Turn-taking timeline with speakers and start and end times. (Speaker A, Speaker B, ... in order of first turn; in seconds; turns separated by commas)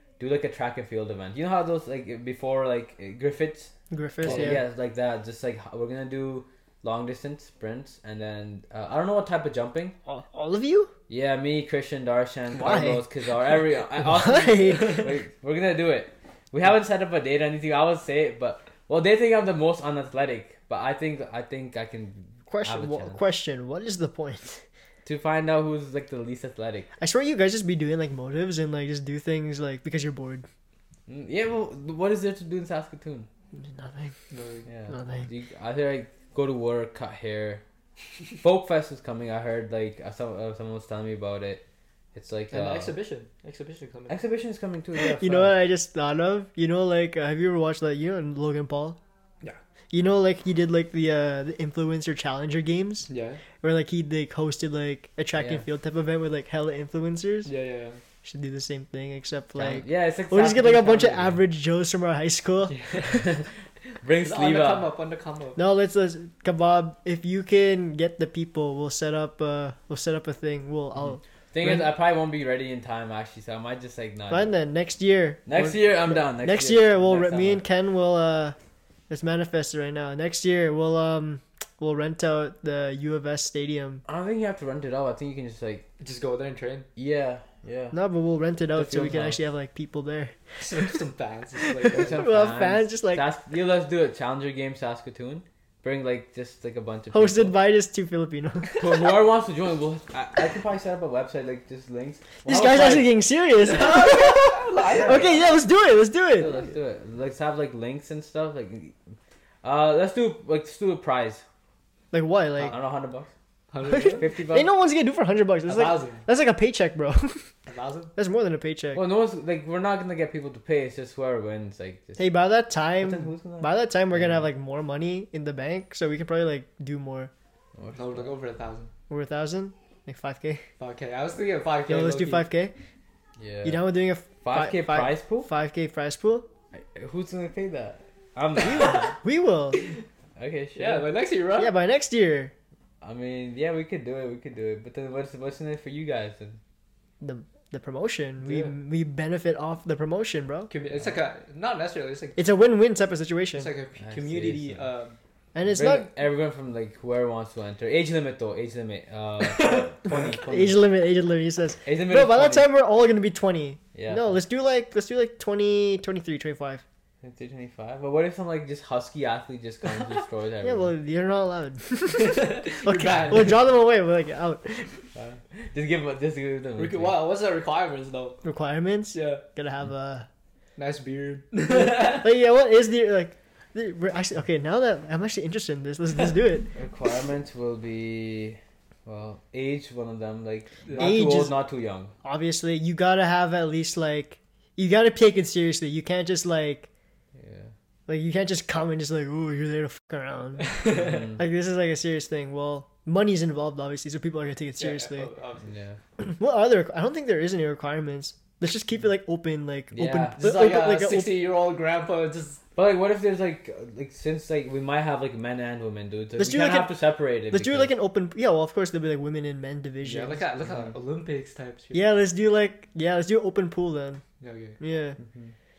Speaker A: 0.2-9.9, Speaker B: 3.9-4.6, Speaker C: 4.2-4.6, Speaker B: 10.1-10.9, Speaker A: 11.1-23.2, Speaker B: 12.5-13.0, Speaker B: 14.0-15.1, Speaker B: 22.5-24.6, Speaker A: 25.0-26.9, Speaker B: 27.0-30.5, Speaker A: 31.1-33.3, Speaker B: 33.5-34.2, Speaker C: 34.3-34.7, Speaker A: 34.7-37.6, Speaker B: 34.9-35.3, Speaker A: 38.4-42.9, Speaker C: 42.5-44.2, Speaker A: 44.1-45.6, Speaker B: 45.0-49.0, Speaker B: 49.9-53.1, Speaker C: 53.1-53.4, Speaker B: 53.6-57.5, Speaker A: 55.4-55.6, Speaker C: 57.5-58.0, Speaker B: 58.2-62.8, Speaker A: 59.5-61.4, Speaker C: 62.7-63.3, Speaker A: 63.0-64.9, Speaker C: 64.1-65.6, Speaker B: 65.6-71.9, Speaker A: 71.5-74.5, Speaker B: 74.3-78.6, Speaker A: 75.5-77.6, Speaker B: 79.1-84.0, Speaker A: 84.1-85.8, Speaker C: 86.0-86.9, Speaker A: 87.0-88.0, Speaker B: 87.9-91.0, Speaker A: 88.7-89.4, Speaker C: 90.6-92.3, Speaker B: 91.8-93.2, Speaker A: 91.9-97.5, Speaker B: 97.1-98.9, Speaker A: 98.8-103.1, Speaker B: 102.5-106.5, Speaker C: 103.6-105.5, Speaker A: 106.3-109.0, Speaker C: 106.4-106.7, Speaker A: 109.6-111.4, Speaker B: 112.1-112.8, Speaker A: 112.7-113.3, Speaker C: 113.7-114.3, Speaker B: 113.9-117.5, Speaker A: 114.2-114.7, Speaker C: 115.7-116.2, Speaker C: 117.7-118.1, Speaker B: 118.2-119.0, Speaker A: 118.9-122.3, Speaker B: 122.2-127.3, Speaker A: 123.0-124.5, Speaker A: 127.8-128.3, Speaker C: 127.9-128.9, Speaker B: 129.1-130.6, Speaker C: 130.8-132.5, Speaker B: 131.9-132.7, Speaker A: 133.4-133.9, Speaker B: 133.6-136.5, Speaker A: 134.4-135.5, Speaker A: 136.7-139.2, Speaker B: 138.6-139.8, Speaker A: 140.4-141.1, Speaker C: 140.7-141.7, Speaker B: 141.6-142.5, Speaker A: 143.0-146.6, Speaker B: 147.2-150.7, Speaker C: 148.4-148.7, Speaker C: 150.7-152.4, Speaker B: 152.4-153.7, Speaker C: 153.6-155.2, Speaker A: 154.0-154.9, Speaker B: 155.5-156.1, Speaker A: 155.6-160.8, Speaker B: 160.1-166.8, Speaker A: 161.8-162.7, Speaker A: 163.9-164.4, Speaker A: 167.2-170.9, Speaker B: 170.6-175.1, Speaker C: 172.1-173.6, Speaker A: 175.1-177.2, Speaker C: 176.8-178.4, Speaker B: 178.4-180.3, Speaker C: 179.1-179.4, Speaker C: 180.8-182.3, Speaker B: 181.7-186.7, Speaker A: 186.7-192.1, Speaker C: 190.8-191.2, Speaker B: 191.0-191.5, Speaker B: 192.2-196.9, Speaker A: 197.3-197.7, Speaker B: 198.1-205.3, Speaker C: 200.6-201.3, Speaker A: 200.9-201.4, Speaker C: 204.8-205.7, Speaker A: 205.6-206.0, Speaker B: 206.2-211.3, Speaker A: 209.9-210.5, Speaker C: 210.4-212.6, Speaker A: 212.8-217.9, Speaker B: 216.4-216.9, Speaker B: 217.5-220.4, Speaker C: 220.0-222.1, Speaker A: 220.6-220.9, Speaker B: 221.9-224.2, Speaker C: 224.4-224.8, Speaker B: 224.8-225.2, Speaker A: 225.2-225.5